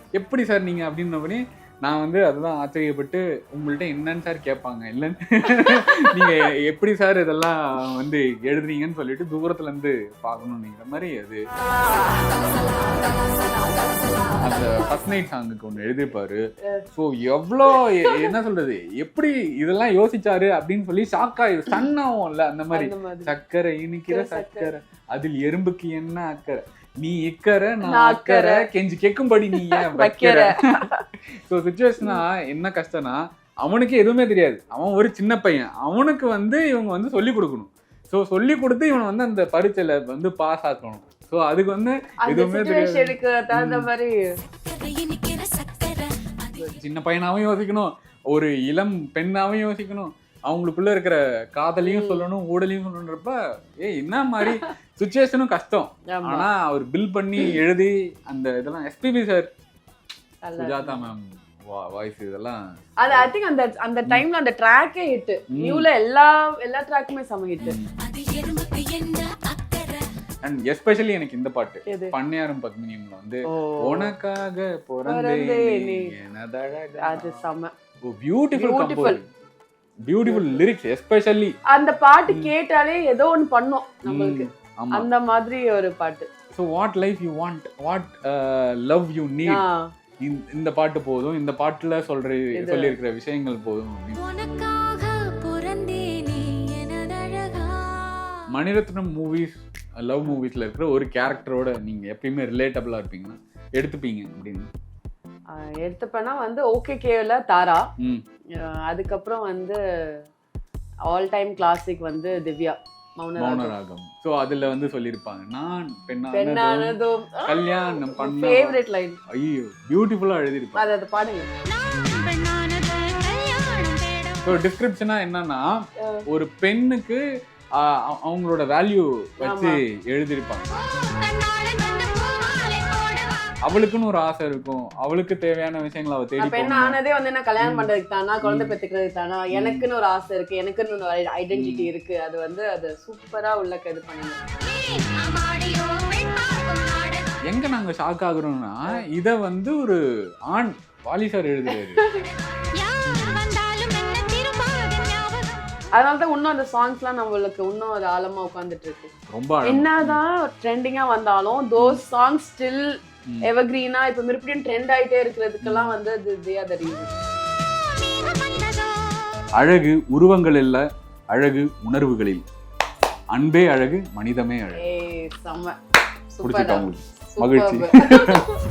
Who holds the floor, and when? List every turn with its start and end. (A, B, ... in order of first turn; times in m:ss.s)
0:00.1-0:11.4 A
0:11.6-0:14.9 B
0:14.4-0:16.4 A
0:16.9-0:30.5 A
0:18.0-0:18.3 B
0:22.7-0:23.3 B
0:24.1-0:24.7 B
0:27.8-0:28.7 B
0:29.6-0:31.0 B
0:31.5-0:43.9 A
0:42.2-0:44.2 B
0:44.4-0:46.7 C
0:46.7-0:59.5 A
0:51.8-0:52.2 B
0:56.1-0:56.5 B
1:00.4-1:01.1 B
1:00.6-1:03.3 A
1:03.0-1:07.8 B
1:05.5-1:05.9 A
1:07.6-1:07.9 A
1:08.0-1:10.0 C
1:10.4-1:17.4 A
1:11.9-1:12.1 B
1:13.5-1:14.1 B
1:15.0-1:16.1 B
1:17.0-1:17.7 B
1:18.0-1:19.2 A
1:18.5-1:19.2 B
1:20.0-1:21.5 A
1:20.2-1:20.6 B
1:21.7-1:26.3 B
1:24.0-1:25.1 A
1:26.5-1:29.6 A
1:29.4-1:29.9 B
1:30.2-1:34.2 A
1:32.5-1:33.0 B
1:34.2-1:38.4 C
1:38.5-1:44.7 A
1:45.5-1:47.9 B
1:48.6-1:50.2 B
1:51.1-1:53.7 B
1:53.4-2:00.9 A
1:56.3-1:59.2 B
2:00.8-2:01.5 B
2:01.6-2:04.6 C
2:04.4-2:07.2 A
2:07.8-2:10.8 A
2:09.4-2:09.7 B
2:10.9-2:13.4 C
2:13.6-2:17.0 A
2:16.4-2:24.4 B
2:17.6-2:17.9 A
2:18.4-2:18.7 A
2:19.5-2:19.8 A
2:21.5-2:21.9 A
2:24.6-2:27.3 C
2:27.4-2:30.0 A
2:30.5-2:32.0 A
2:31.9-2:32.2 B
2:32.8-2:35.6 C
2:35.9-2:39.1 B
2:39.3-2:40.2 A
2:39.6-2:42.9 B
2:43.4-2:47.1 B
2:45.6-2:46.0 A
2:47.9-2:49.4 C
2:49.6-2:52.4 A
2:53.3-2:54.8 A
2:54.8-2:55.8 B
2:56.3-2:58.6 B
2:56.4-2:58.4 A